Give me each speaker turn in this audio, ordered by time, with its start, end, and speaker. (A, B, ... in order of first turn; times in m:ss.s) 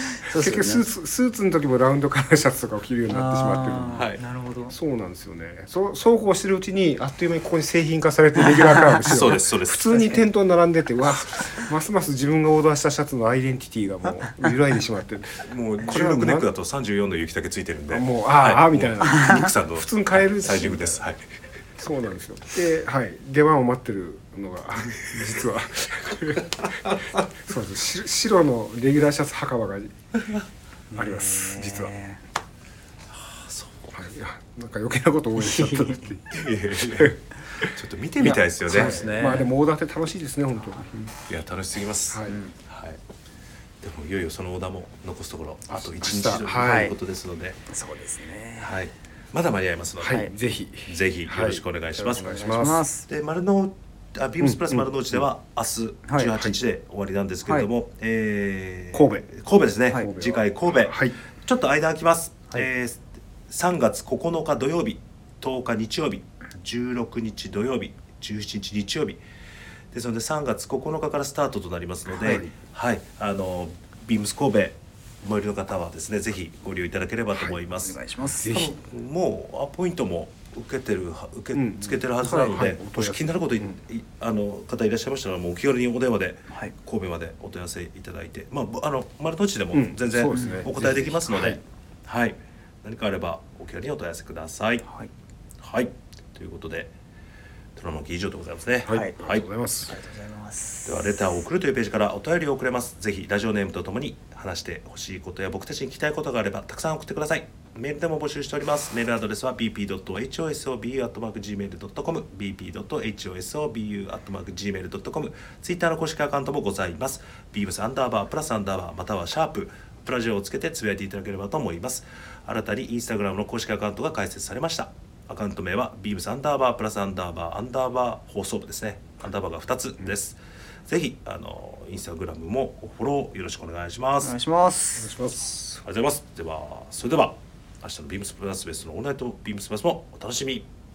0:00.2-0:00.8 A
0:00.3-0:04.1 B
0:03.1-0:04.7 A
0:03.9-0:04.2 C
0:04.7-0:16.5 B
0:09.0-0:10.2 C
0:15.4-0:21.2 C
0:17.9-0:21.0 B
0:21.8-0:26.7 B
0:26.6-0:27.2 C
0:27.3-0:29.9 B
0:30.9-0:32.0 B
0:30.9-0:32.2 A
0:33.1-0:33.9 C
0:33.9-0:36.4 B
0:35.4-0:35.9 A
0:36.3-0:39.0 C
0:36.9-0:37.2 B
0:38.2-0:39.5 A
0:38.2-0:41.1 B
0:41.3-0:43.0 C
0:42.1-0:42.4 B
0:43.8-0:47.6 C
0:45.7-0:46.9 B
0:46.6-0:46.9 A
0:47.7-0:48.7 A
0:48.6-0:50.3 C
0:50.0-0:52.8 B
0:50.8-1:09.2 C
0:52.1-0:53.0 A
0:54.4-0:54.9 B
0:58.9-0:59.3 B
0:59.9-1:01.1 B
1:09.9-1:34.8 C
1:12.2-1:12.5 B
1:17.8-1:18.6 A
1:18.4-1:18.7 B
1:21.5-1:23.7 B
1:29.7-1:31.6 B
1:30.3-1:30.7 A
1:35.6-1:36.9 C
1:37.8-1:39.4 C
1:38.8-1:39.9 B
1:39.9-1:41.2 A
1:40.8-2:14.4 C
2:14.2-2:15.1 A
2:15.0-2:15.5 B
2:15.7-2:20.7 C